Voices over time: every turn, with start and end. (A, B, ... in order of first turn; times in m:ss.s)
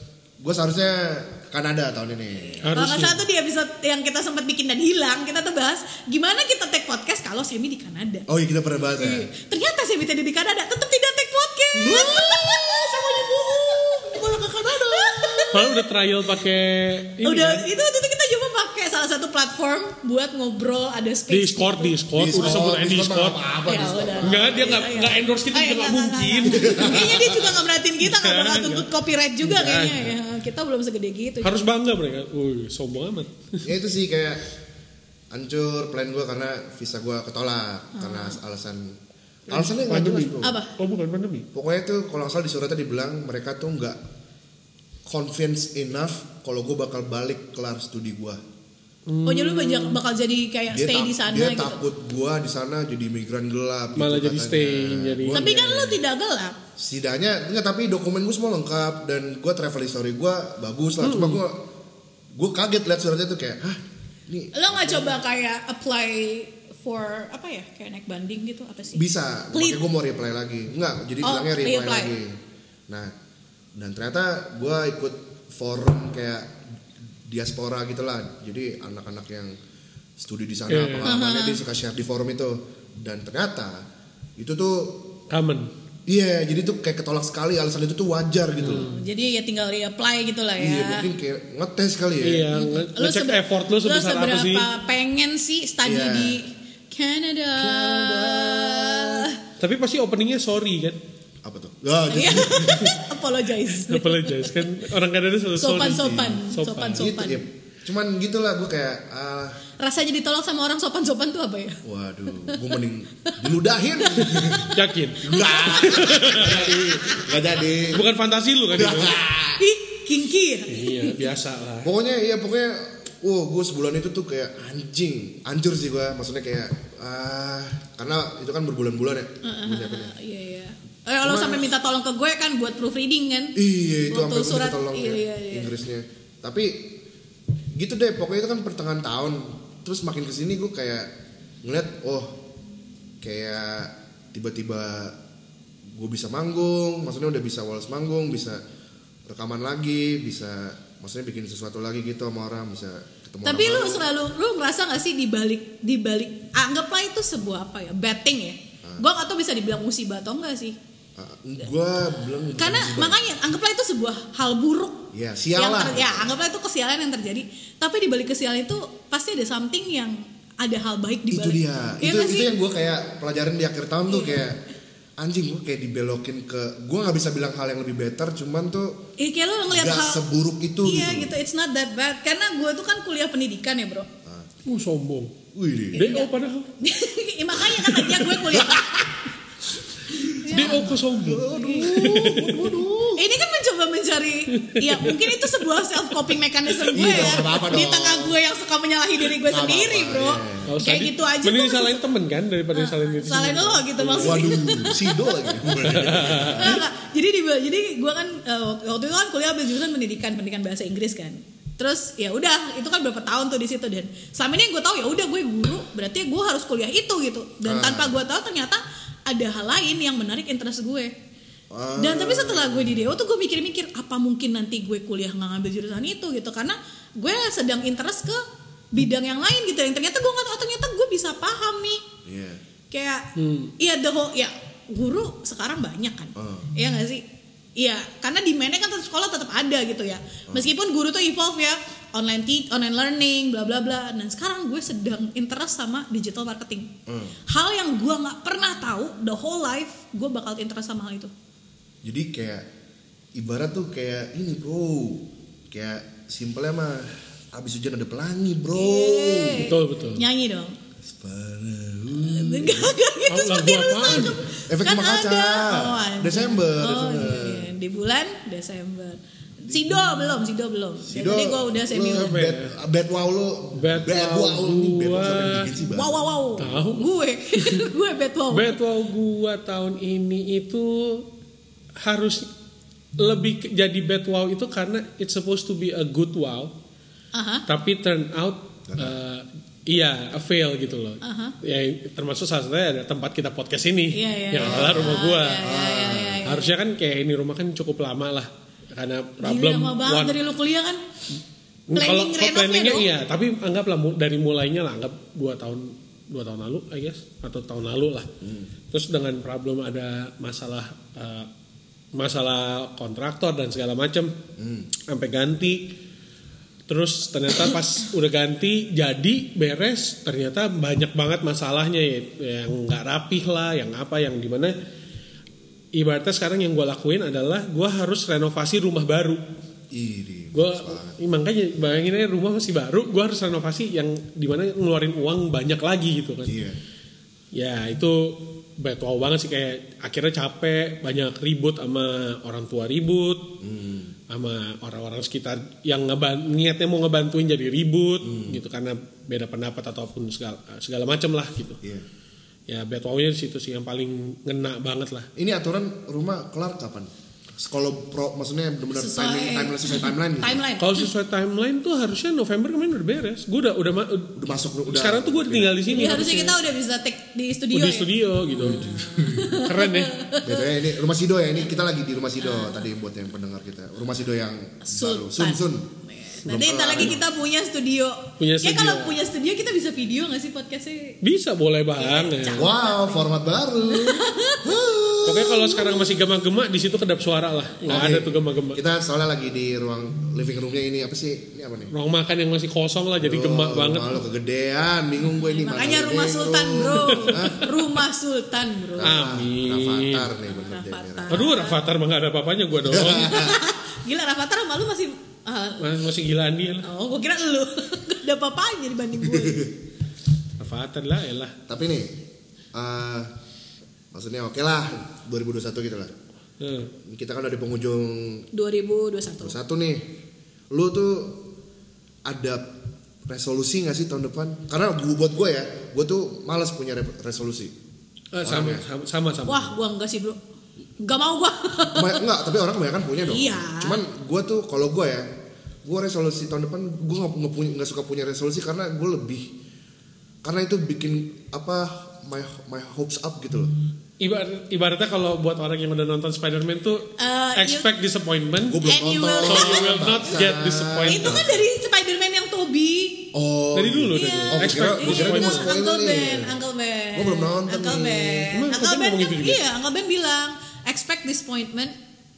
0:00.4-0:02.7 A
0:02.6-0:03.2 B
0:02.7-0:08.3 C
0:08.3-0:09.3 A
0:09.0-0:15.8 C
0:11.7-0:15.6 A
0:15.5-0:17.7 B
0:17.2-0:22.6 C
0:21.3-0:23.4 B
0:22.2-0:24.9 A
0:23.7-0:31.6 C
0:24.2-0:27.3 B
0:26.5-0:27.5 A
0:28.0-0:28.9 B
0:29.4-0:30.2 B
0:31.4-0:33.6 B
0:33.6-0:34.4 A
0:35.3-0:40.6 A
0:38.0-0:38.4 C
0:39.5-0:41.5 B
0:40.4-0:40.7 C
0:41.5-0:44.0 A
0:45.1-0:48.4 A
0:49.1-0:50.0 B
0:49.3-0:51.8 C
0:50.7-0:55.6 A
0:54.0-0:56.0 B
0:55.3-0:56.6 C
0:56.8-1:01.7 A
1:01.0-1:01.4 B
1:02.4-1:05.2 A
1:04.5-1:09.8 C
1:08.9-1:12.4 A
1:11.2-1:12.1 C
1:13.8-1:16.6 A
1:17.3-1:19.6 A
1:20.2-1:23.8 A
1:20.7-1:21.1 B
1:21.0-1:21.6 C
1:24.4-1:25.1 A
1:25.3-1:25.7 B
1:26.1-1:28.9 A
1:28.6-1:31.1 C
1:28.6-1:29.0 B
1:30.6-1:32.5 A
1:32.2-1:34.7 B
1:32.6-1:39.4 C
1:35.8-1:36.4 A
1:37.6-1:39.3 A
1:39.6-1:41.0 B
1:41.4-1:43.0 A
1:42.1-1:44.7 C
1:43.8-1:47.1 B
1:45.6-1:47.4 C
1:45.9-1:46.4 A
1:47.0-1:49.6 A
1:49.8-1:51.8 C
1:51.8-1:58.1 A
1:54.1-1:57.3 C
1:54.2-1:56.8 B
1:57.9-1:59.2 B
1:58.7-1:59.6 A
1:59.6-2:01.2 C
2:00.7-2:01.9 B
2:01.8-2:10.1 A
2:09.4-2:13.6 C
2:11.2-2:11.8 A
2:13.6-2:17.0 A
2:14.1-2:15.7 C
2:17.8-2:21.1 A
2:21.6-2:22.4 A
2:23.2-2:25.2 A
2:25.9-2:28.6 A
2:29.3-2:34.1 A
2:33.4-2:40.8 C
2:41.2-2:43.2 A
2:42.6-2:52.5 C
2:45.1-2:46.4 A
2:51.3-2:54.6 A
2:54.1-2:54.4 C
2:55.2-2:59.0 A
2:59.2-3:00.2 C
2:59.7-3:01.3 A
3:00.8-3:04.1 C
3:04.7-3:05.3 B
3:05.5-3:06.1 A
3:06.0-3:09.1 C
3:06.0-3:06.7 B
3:07.6-3:09.2 A
3:10.1-3:13.2 A
3:10.2-3:12.3 C
3:10.4-3:12.9 B
3:13.2-3:22.0 C
3:14.6-3:15.5 B
3:16.9-3:18.4 A
3:17.0-3:17.6 B
3:19.4-3:20.7 A
3:20.7-3:24.6 B
3:22.7-3:25.6 C
3:24.2-3:26.9 A
3:25.8-3:26.8 B
3:26.5-3:41.1 C
3:37.6-3:38.2 A
3:41.7-3:43.0 A
3:42.0-3:48.4 C
3:48.9-3:52.0 C
3:52.2-3:52.6 A
3:52.9-3:53.2 C
3:53.4-3:53.7 B
3:53.8-3:57.2 C
3:56.4-3:56.7 A
3:57.8-4:06.9 C
4:07.1-4:07.4 A
4:07.5-4:11.3 C
4:12.0-4:12.7 A
4:13.4-4:19.7 A
4:18.7-4:20.8 C
4:19.6-4:20.2 B
4:21.0-4:22.9 A
4:22.1-4:32.4 C
4:23.3-4:24.4 B
4:24.7-4:27.7 A
4:31.0-4:36.2 A
4:32.1-4:32.7 B
4:33.8-4:35.7 B
4:35.9-4:38.8 C
4:36.6-4:37.9 B
4:38.5-4:41.3 B
4:42.0-4:42.5 B
4:43.2-4:46.7 B
4:47.3-4:47.7 C
4:47.7-4:55.7 B
4:48.9-4:49.2 A
4:51.2-4:51.6 C
4:54.1-4:56.7 C
4:54.6-4:56.5 A
4:56.4-5:00.4 B
4:59.4-5:01.0 C
5:01.9-5:08.3 B
5:01.9-5:03.1 C
5:08.4-5:08.7 A
5:08.9-5:11.5 B
5:12.1-5:14.3 B
5:14.6-5:14.9 A
5:15.1-5:15.9 B
5:16.9-5:24.8 B
5:26.0-5:29.4 B
5:29.9-5:31.2 A
5:30.5-5:36.6 B
5:36.4-5:36.8 A
5:37.5-5:43.5 B
5:43.6-5:44.2 A
5:44.3-5:51.8 B
5:48.2-5:48.6 A
5:52.7-5:55.3 B
5:55.4-6:00.6 A
5:58.9-6:01.1 C
6:00.8-6:04.3 B
6:04.4-6:05.8 A
6:04.9-6:06.6 B
6:05.9-6:10.7 C
6:07.7-6:08.9 B
6:08.5-6:09.6 A
6:09.5-6:10.2 B
6:10.4-6:15.9 A
6:12.4-6:12.9 C
6:14.8-6:21.2 C
6:16.4-6:17.2 A
6:18.4-6:19.2 B
6:21.2-6:22.7 B
6:22.0-6:24.7 C
6:22.5-6:25.9 A
6:25.2-6:28.8 B
6:27.9-6:31.9 A
6:31.9-6:34.2 B
6:33.2-6:37.8 A
6:35.4-6:39.2 C
6:37.0-6:37.5 B
6:39.0-6:41.4 A
6:39.0-6:40.3 B
6:40.5-6:41.8 C
6:41.3-6:43.5 B
6:42.8-6:43.6 A
6:43.2-6:45.9 C
6:45.8-6:46.9 B
6:46.8-6:49.7 C
6:49.3-6:49.7 A
6:50.6-6:51.6 B
6:51.7-6:52.2 A
6:52.7-6:53.3 A
6:54.1-6:56.1 A
6:56.6-6:56.9 B
6:57.0-6:58.5 A
6:58.5-6:59.6 C
6:59.4-7:00.0 A
7:00.7-7:01.5 A
7:02.2-7:02.7 A
7:03.3-7:07.7 A
7:08.3-7:09.7 B
7:08.4-7:08.8 A
7:09.5-7:10.4 C
7:11.0-7:12.3 C
7:11.9-7:15.3 A
7:13.3-7:14.0 C
7:15.8-7:19.5 A
7:20.4-7:23.7 A
7:24.2-7:28.9 B
7:27.2-7:27.9 C
7:28.7-7:31.5 A
7:28.9-7:30.0 C
7:29.4-7:31.4 B
7:31.1-7:33.3 C
7:33.3-7:36.6 A
7:33.8-7:35.7 B
7:34.1-7:42.0 C
7:37.1-7:38.5 A
7:38.5-7:39.6 B